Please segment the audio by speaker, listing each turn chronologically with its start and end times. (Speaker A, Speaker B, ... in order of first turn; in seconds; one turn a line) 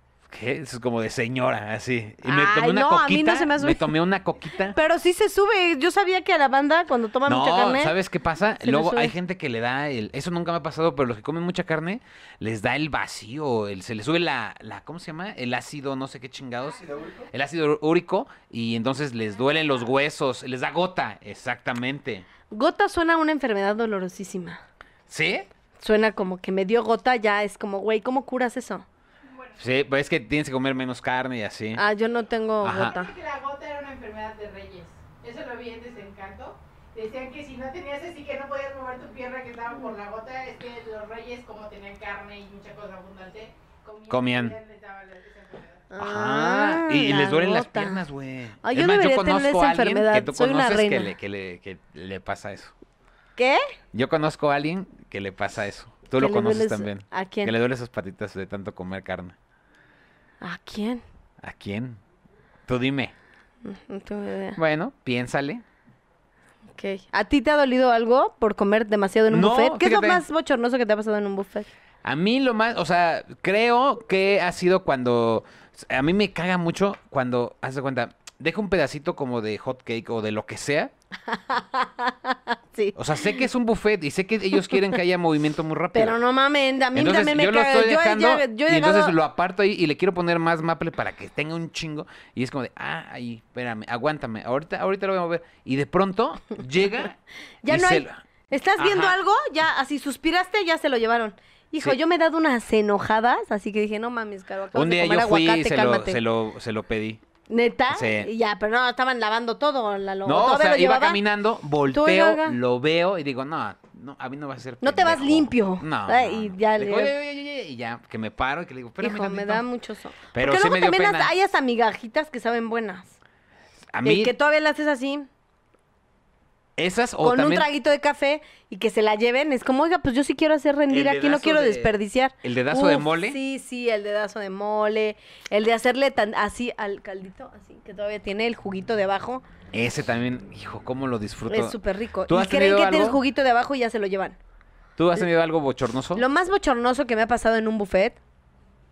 Speaker A: 0.3-4.8
Speaker B: 2.2-3.9
Speaker B: 4.7-8.0
Speaker A: 7.2-22.2
Speaker B: 8.6-9.1
Speaker B: 22.5-24.6
Speaker A: 25.1-25.5
Speaker B: 25.8-28.9
Speaker A: 29.6-31.8
Speaker B: 31.7-33.1
Speaker A: 32.6-33.0
Speaker C: 32.8-45.8
Speaker A: 44.1-44.5
Speaker B: 45.9-48.0
Speaker A: 46.0-52.7
Speaker B: 48.6-51.1
Speaker B: 53.4-53.6
Speaker A: 53.9-59.3
Speaker B: 56.2-57.5
Speaker B: 60.4-61.0
Speaker A: 61.4-62.0
Speaker A: 62.7-63.1
Speaker B: 63.6-64.6
Speaker A: 64.5-65.6
Speaker B: 66.8-71.7
Speaker A: 69.3-70.2
Speaker A: 72.0-80.9
Speaker B: 81.3-83.4
Speaker A: 82.9-86.2
Speaker B: 84.6-84.9
Speaker B: 85.9-89.1
Speaker A: 86.9-97.2
Speaker B: 97.6-106.2
Speaker A: 97.7-98.2
Speaker A: 98.8-99.2
Speaker A: 104.7-107.2
Speaker B: 107.5-111.2
Speaker A: 107.9-108.3
Speaker A: 110.2-119.6
Speaker B: 111.9-112.6
Speaker B: 114.8-117.1
Speaker B: 119.0-123.1
Speaker A: 120.3-121.3
Speaker A: 123.9-124.3
Speaker B: 124.0-125.3
Speaker A: 126.8-127.7
Speaker B: 127.2-139.4
Speaker A: 130.9-133.4
Speaker A: 139.7-143.2
Speaker B: 141.5-144.4
Speaker A: 145.0-146.2
Speaker B: 146.1-148.2